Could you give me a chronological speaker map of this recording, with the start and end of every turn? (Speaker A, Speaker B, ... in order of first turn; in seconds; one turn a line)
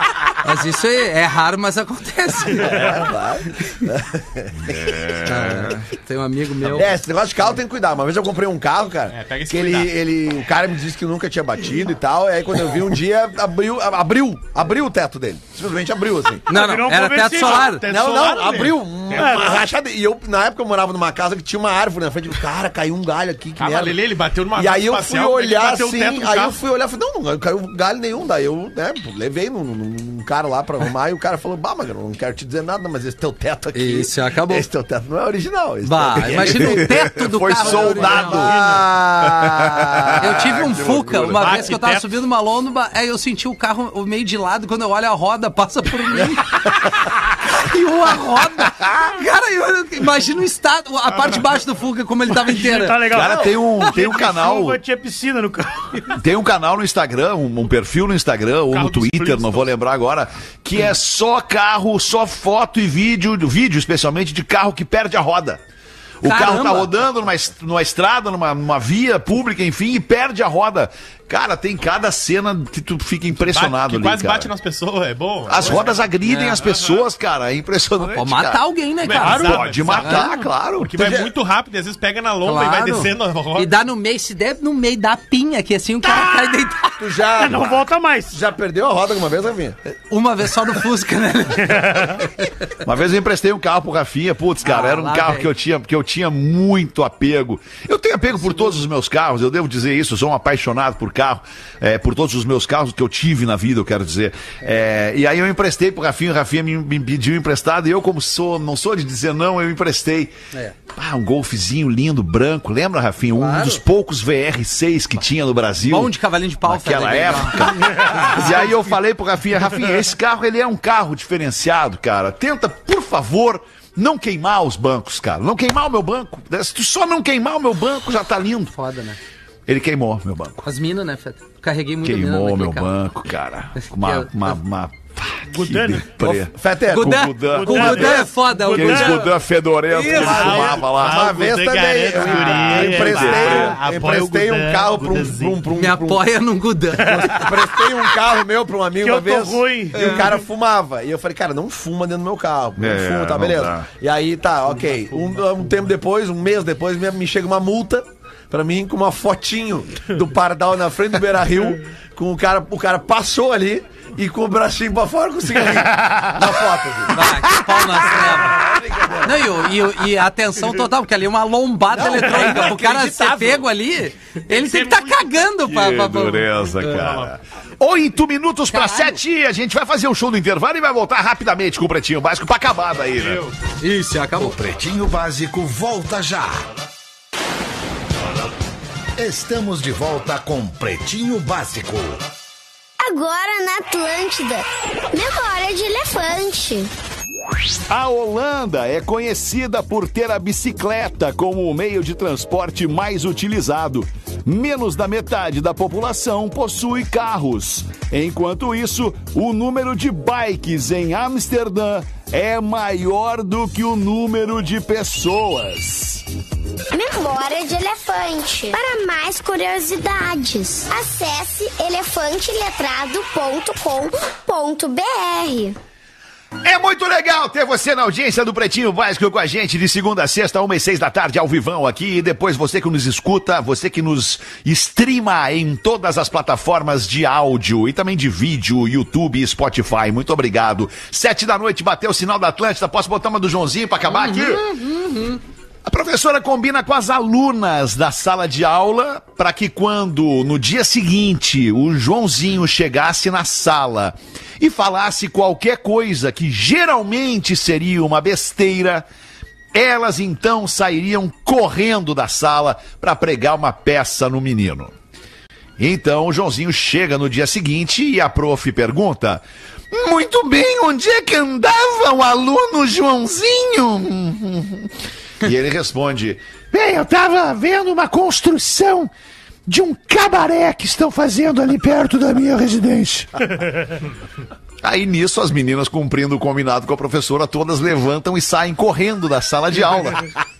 Speaker A: 0.4-3.1
Speaker B: 2.5-5.2
Speaker C: 4.6-5.9
Speaker A: 5.2-7.0
Speaker B: 6.6-16.5
Speaker D: 9.1-9.9
Speaker A: 16.5-17.8
Speaker E: 16.5-17.8
Speaker D: 17.3-19.6
Speaker B: 17.8-24.0
Speaker E: 19.1-19.6
Speaker D: 23.6-26.6
Speaker B: 24.6-40.3
Speaker A: 33.7-34.7
Speaker A: 35.8-38.5
Speaker C: 36.2-38.6
Speaker E: 38.1-38.8
Speaker C: 39.2-41.5
Speaker A: 40.2-46.7
Speaker D: 41.4-42.1
Speaker A: 47.5-53.5
Speaker E: 52.3-56.2
Speaker C: 53.1-54.8
Speaker C: 56.1-65.6
Speaker D: 58.7-59.7
Speaker C: 66.2-74.5
Speaker A: 66.2-66.9
Speaker D: 73.3-76.0
Speaker C: 75.5-78.6
Speaker A: 76.2-76.6
Speaker D: 76.6-76.9
Speaker A: 78.0-80.2
Speaker D: 79.0-83.7
Speaker E: 79.2-79.6
Speaker C: 79.3-80.9
Speaker B: 81.0-81.3
Speaker A: 82.4-87.5
Speaker B: 87.0-89.8
Speaker E: 87.4-88.3
Speaker A: 89.8-92.5
Speaker E: 91.6-92.2
Speaker C: 92.8-110.3
Speaker A: 94.6-95.5
Speaker C: 110.9-116.1
Speaker A: 113.3-113.8
Speaker A: 115.8-118.6
Speaker C: 116.6-128.7
Speaker A: 128.7-129.2
Speaker C: 129.7-130.7
Speaker A: 130.6-132.9
Speaker C: 132.0-141.3
Speaker A: 133.8-134.6
Speaker E: 135.5-136.1
Speaker B: 136.2-137.4
Speaker A: 136.9-139.3
Speaker E: 137.5-139.3
Speaker A: 139.9-140.5
Speaker B: 140.0-146.2
Speaker D: 140.1-145.7
Speaker C: 142.3-143.8
Speaker A: 145.7-147.8
Speaker E: 147.0-147.6
Speaker B: 147.1-167.2
Speaker E: 149.0-150.4
Speaker C: 152.8-153.9
Speaker D: 154.7-155.8
Speaker C: 165.7-166.5
Speaker A: 167.1-177.0
Speaker C: 167.2-168.0
Speaker B: 168.0-169.7
Speaker B: 171.9-173.7
Speaker D: 174.5-175.5
Speaker C: 175.7-183.4
Speaker D: 176.7-177.3
Speaker A: 178.7-179.2
Speaker D: 183.1-183.6
Speaker A: 183.8-184.6
Speaker F: 184.3-186.7
Speaker F: 189.2-192.2
Speaker G: 193.0-196.9
Speaker C: 197.9-216.2
Speaker G: 216.9-225.8
Speaker C: 226.6-244.7
Speaker A: 244.1-245.4
Speaker C: 245.8-259.1
Speaker C: 259.7-264.9
Speaker C: 265.8-279.1
Speaker C: 279.6-283.5
Speaker C: 284.8-290.3